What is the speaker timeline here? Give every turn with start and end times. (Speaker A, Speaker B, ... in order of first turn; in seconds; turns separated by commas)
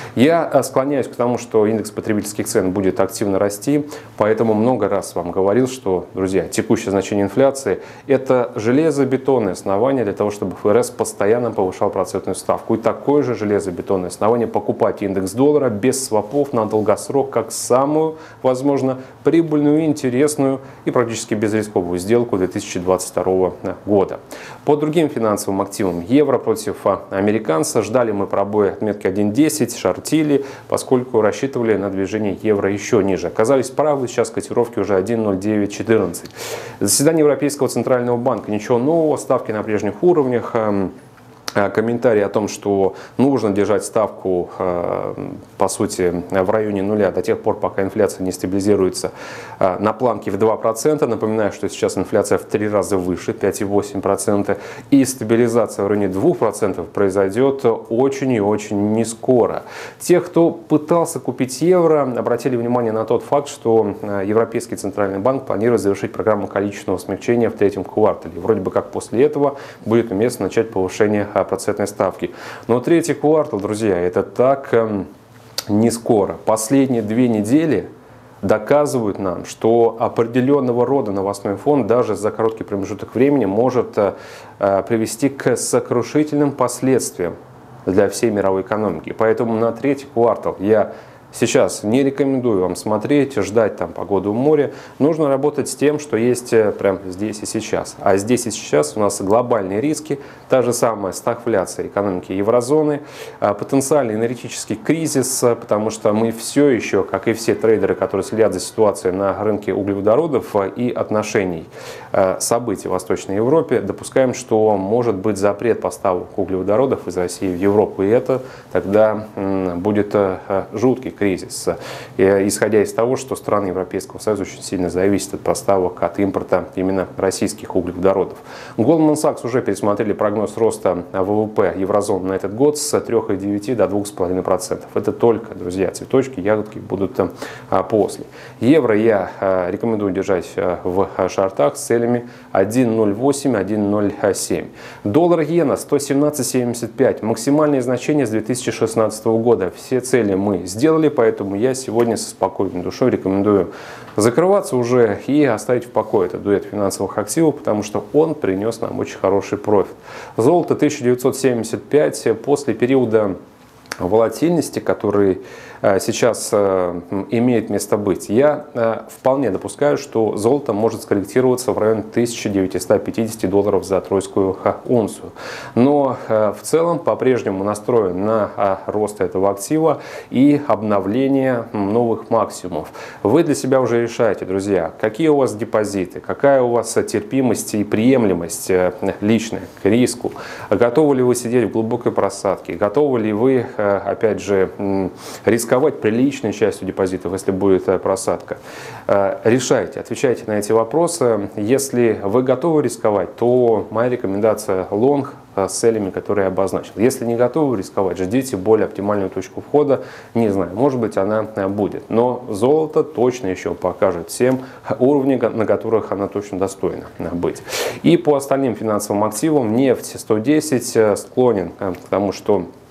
Speaker A: 0.2-40.9, Speaker A: 41.5-75.1, Speaker A: 75.7-77.9, Speaker A: 78.4-87.3, Speaker A: 87.9-163.3, Speaker A: 164.0-222.7